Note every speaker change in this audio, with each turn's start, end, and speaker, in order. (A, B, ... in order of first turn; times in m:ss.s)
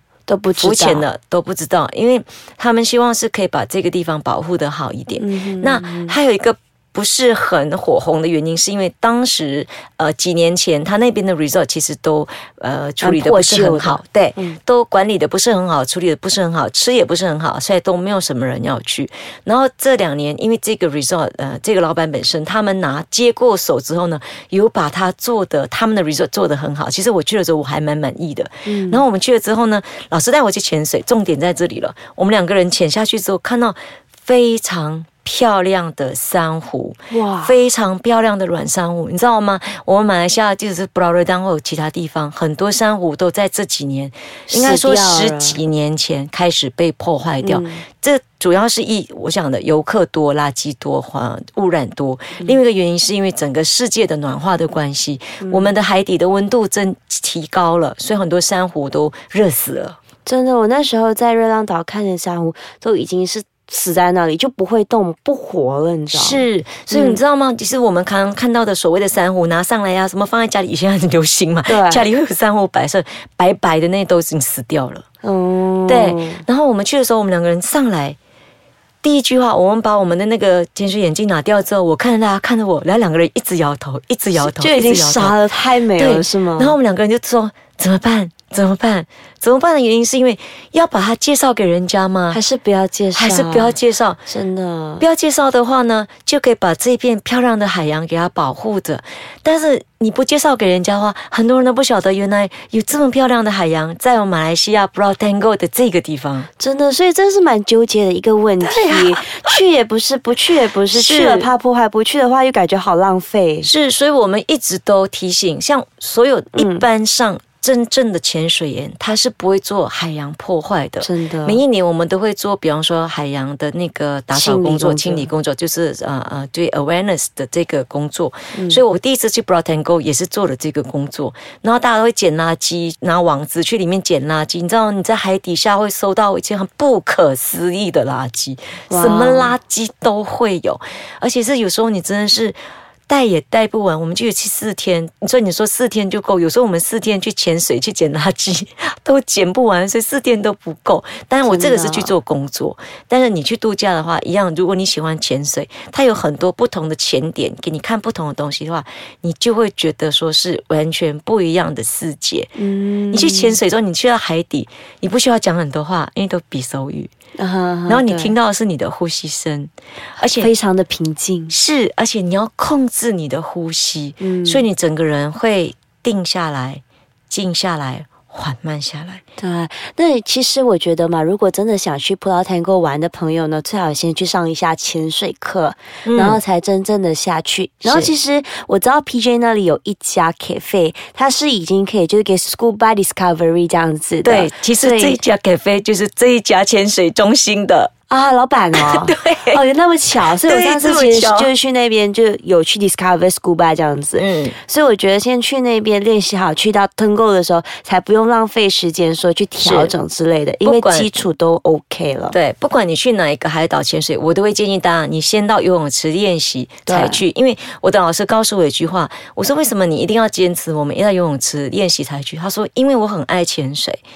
0:00.3-0:01.0 A
0:00.6-1:00.0 B
0:05.2-0:06.2 A
0:13.0-0:14.6 A
0:28.6-0:29.0 A
0:37.1-0:37.6 A
0:44.5-0:45.6 A
0:47.4-0:47.8 A
0:55.4-0:55.7 A
1:00.2-1:07.2 A
1:06.1-1:15.0 B
1:11.7-1:12.1 A
1:15.2-1:16.4 A
1:15.9-1:18.2 B
1:19.0-1:25.4 B
1:24.4-1:26.8 A
1:26.0-1:32.4 B
1:32.3-1:35.1 A
1:33.1-1:34.2 B
1:35.0-1:46.5 B
1:46.6-1:53.7 A
1:48.6-1:49.6 B
1:50.9-1:51.5 B
1:53.6-2:42.5 B
1:56.6-1:56.8 A
2:01.0-2:01.6 A
2:04.3-2:05.3 A
2:08.5-2:08.8 A
2:18.9-2:19.5 A
2:31.4-2:32.1 A
2:42.6-2:43.6 A
2:43.1-2:47.1 B
2:47.4-2:48.4 A
2:47.9-2:50.5 B
2:50.4-2:51.6 A
2:51.5-2:59.2 B
2:54.2-2:54.6 A
2:59.4-3:15.2 A
3:06.0-3:06.4 B
3:07.8-3:08.1 B
3:14.2-3:17.9 B
3:18.1-3:32.4 A
3:18.7-3:19.6 B
3:20.2-3:21.5 B
3:24.2-3:24.5 B
3:29.6-3:29.9 B
3:30.6-3:31.3 B
3:32.3-3:44.0 B
3:36.8-3:37.2 A